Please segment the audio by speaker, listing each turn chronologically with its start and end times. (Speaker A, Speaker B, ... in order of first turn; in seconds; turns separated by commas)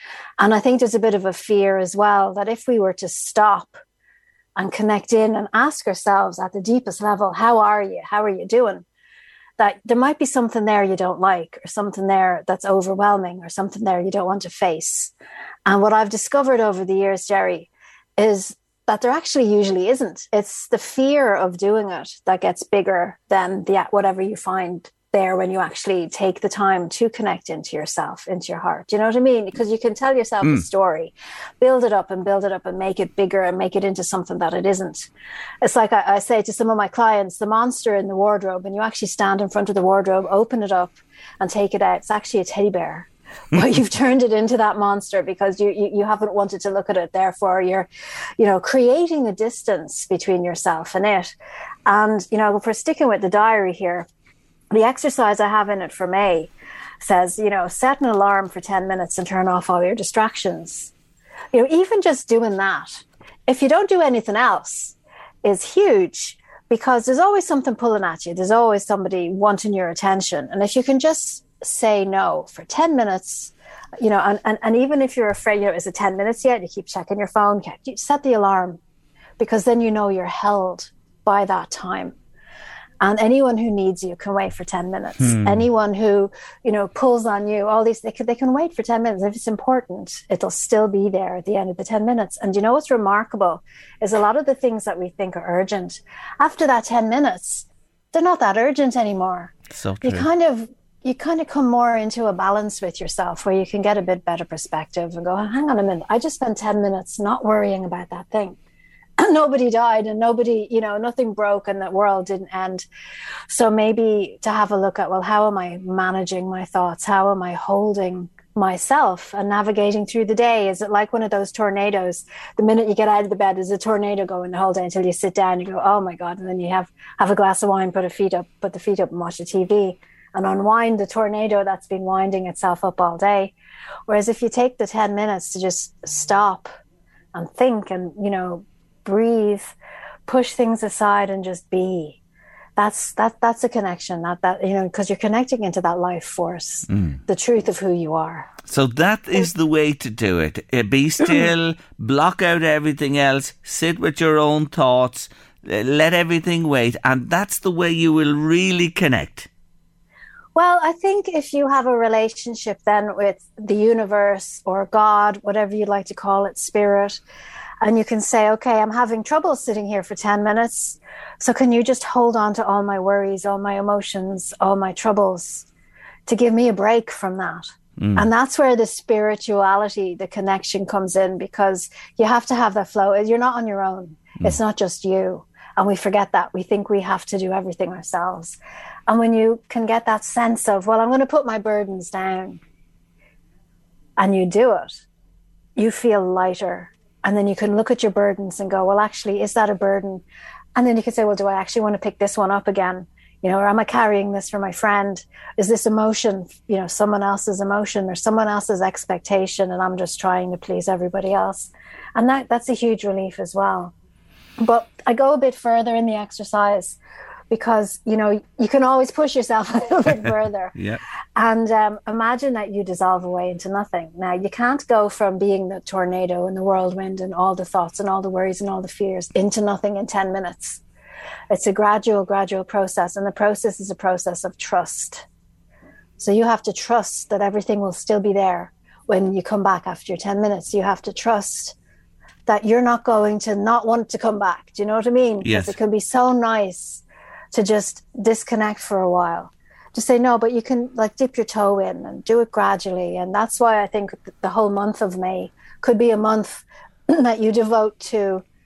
Speaker A: 0.4-3.8, Speaker A: 4.6-8.8, Speaker A: 9.6-15.1, Speaker A: 15.7-35.1, Speaker A: 35.6-47.9, Speaker A: 48.4-51.3, Speaker A: 51.9-54.1, Speaker A: 54.7-60.9, Speaker A: 61.5-78.8, Speaker A: 79.4-82.2, Speaker A: 83.0-108.6, Speaker B: 85.2-85.7, Speaker B: 99.7-100.3, Speaker A: 109.2-112.9, Speaker A: 113.5-133.5, Speaker A: 134.1-136.7, Speaker A: 137.3-139.8, Speaker A: 140.3-142.2, Speaker A: 142.8-148.5, Speaker B: 146.9-147.2, Speaker B: 148.7-159.5, Speaker A: 160.6-167.2, Speaker A: 167.8-175.7, Speaker A: 176.3-192.6, Speaker B: 178.0-178.3, Speaker A: 194.2-195.0, Speaker A: 195.8-200.2, Speaker A: 200.8-213.9, Speaker A: 214.6-217.0, Speaker A: 217.5-220.7, Speaker B: 220.8-221.0, Speaker A: 221.4-230.8, Speaker A: 231.5-235.2, Speaker A: 236.2-241.8, Speaker A: 242.5-258.4, Speaker B: 245.4-245.7